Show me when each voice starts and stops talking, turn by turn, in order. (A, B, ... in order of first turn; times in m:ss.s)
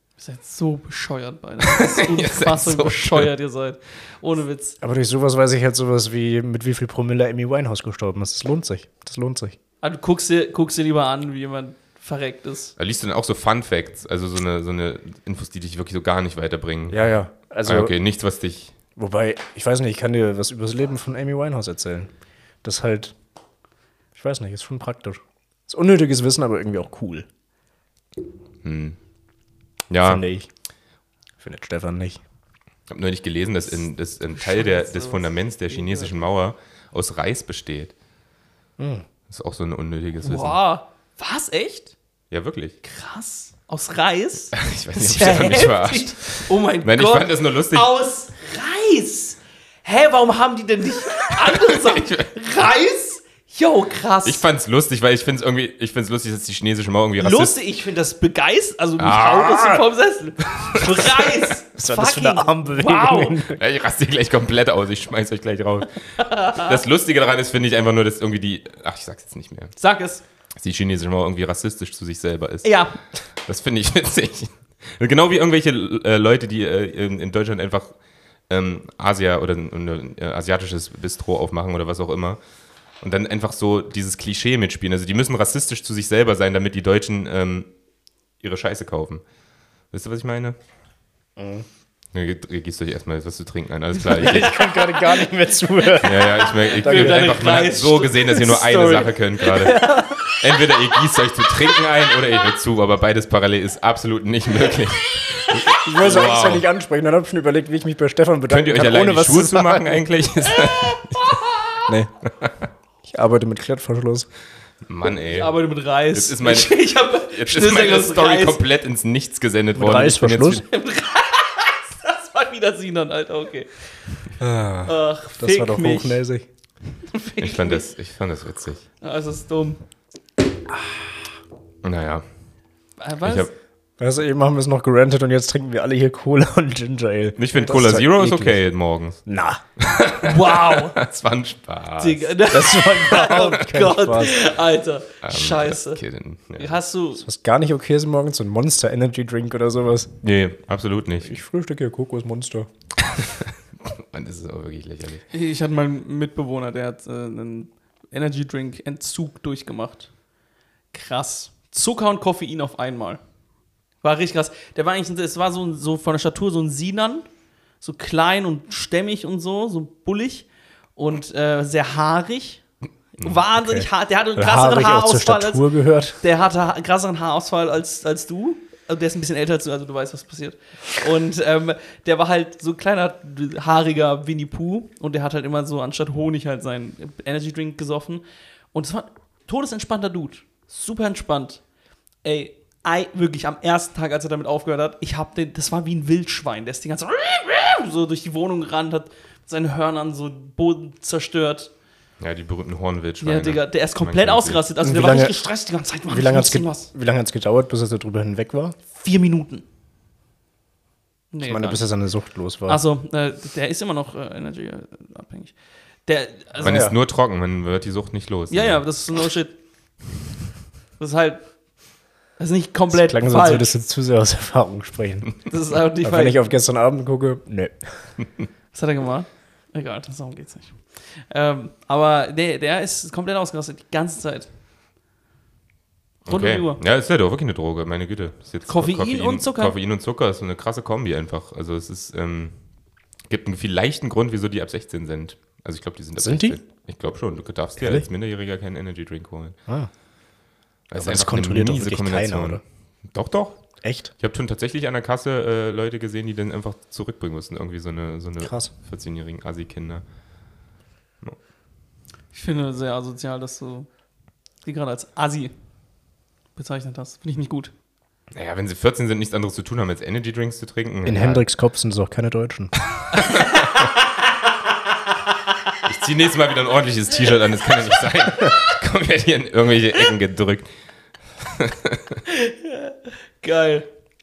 0:00.2-0:04.8 A
0:01.6-0:03.3 B
0:04.8-0:09.6 C
0:09.8-0:12.7 A
0:12.8-0:17.0 B
0:16.9-0:17.9 C
0:17.6-0:18.7 B
0:19.0-0:22.1 C
0:22.6-0:23.1 C
0:24.1-0:27.3 C
0:28.6-0:29.0 B
0:29.9-0:30.2 B
0:30.0-0:30.5 C
0:31.4-0:32.2 C
0:32.9-0:37.9 B
0:34.3-0:36.1 A
0:38.8-0:39.0 C
0:39.3-0:40.6 B
0:40.2-0:41.9 A
0:42.3-0:42.8 B
0:42.8-0:54.4 A
0:44.5-0:47.9 B
0:51.3-0:52.3 B
0:54.2-0:57.5 B
0:57.2-1:03.4 A
0:59.0-0:59.8 B
1:00.5-1:01.4 B
1:01.7-1:03.6 C
1:03.5-1:09.7 B
1:06.2-1:06.7 A
1:09.8-1:10.2 A
1:10.6-1:12.8 B
1:12.6-1:13.0 A
1:13.4-1:17.9 B
1:18.5-1:22.4 B
1:23.0-1:27.7 B
1:28.4-1:29.2 B
1:29.9-1:30.6 B
1:31.4-1:31.6 C
1:32.1-1:34.7 B
1:34.1-1:37.5 C
1:35.8-1:40.8 A
1:36.0-1:46.6 B
1:45.2-1:45.8 A
1:45.8-1:50.1 C
1:48.5-1:51.4 B
1:50.5-1:51.6 A
1:51.9-1:52.1 C
1:53.0-1:54.3 C
1:54.9-1:55.6 B
1:55.3-1:58.6 A
1:56.1-2:00.6 B
1:59.7-2:00.6 C
2:00.6-2:03.7 A
2:04.4-2:06.4 C
2:04.8-2:06.2 A
2:07.0-2:07.8 A
2:07.4-2:08.8 B
2:09.0-2:09.8 A
2:11.8-2:12.2 B
2:13.0-2:13.5 A
2:13.2-2:13.5 B
2:14.0-2:18.6 C
2:17.4-2:19.2 B
2:19.2-2:19.6 C
2:19.8-2:22.3 B
2:20.2-2:21.0 A
2:22.0-2:26.0 A
2:22.5-2:24.4 C
2:25.2-2:26.8 B
2:26.6-2:27.2 A
2:27.2-2:30.1 C
2:30.2-2:31.4 B
2:31.2-2:32.7 C
2:33.0-2:35.2 B
2:35.3-2:40.1 A
2:40.9-2:43.2 A
2:44.0-2:47.2 A
2:47.8-2:52.6 A
2:53.2-2:55.6 A
2:53.5-2:56.2 C
2:56.2-3:11.6 A
3:12.2-3:21.7 A
3:22.2-3:24.6 B
3:23.2-3:26.9 A
3:24.8-3:25.4 C
3:26.1-3:28.8 C
3:28.9-3:29.6 A
3:31.3-3:31.8 A
3:31.4-3:32.8 C
3:32.7-3:35.5 A
3:36.0-3:36.9 A
3:36.6-3:38.8 B
3:36.6-3:37.0 C
3:38.5-3:39.6 A
3:41.0-3:41.4 A
3:42.4-3:43.7 A
3:42.9-3:45.3 C
3:45.5-3:46.4 A
3:46.0-3:47.8 C
3:48.7-3:54.5 A
3:56.2-4:02.5 B
3:56.3-3:56.8 A
3:58.7-3:59.7 A
4:03.3-4:09.6 B
4:06.2-4:06.6 C
4:07.8-4:08.0 C
4:10.9-4:13.6 B
4:11.0-4:12.6 C
4:13.8-4:14.1 C
4:14.2-4:20.0 B
4:18.4-4:18.7 C
4:22.3-4:23.9 A
4:24.6-4:25.5 A
4:26.6-4:27.7 A
4:28.3-4:31.4 B
4:31.0-4:32.7 C
4:33.0-4:33.8 B
4:33.1-4:34.5 A
4:35.8-4:40.7 B
4:41.4-4:42.2 B
4:42.2-4:43.9 A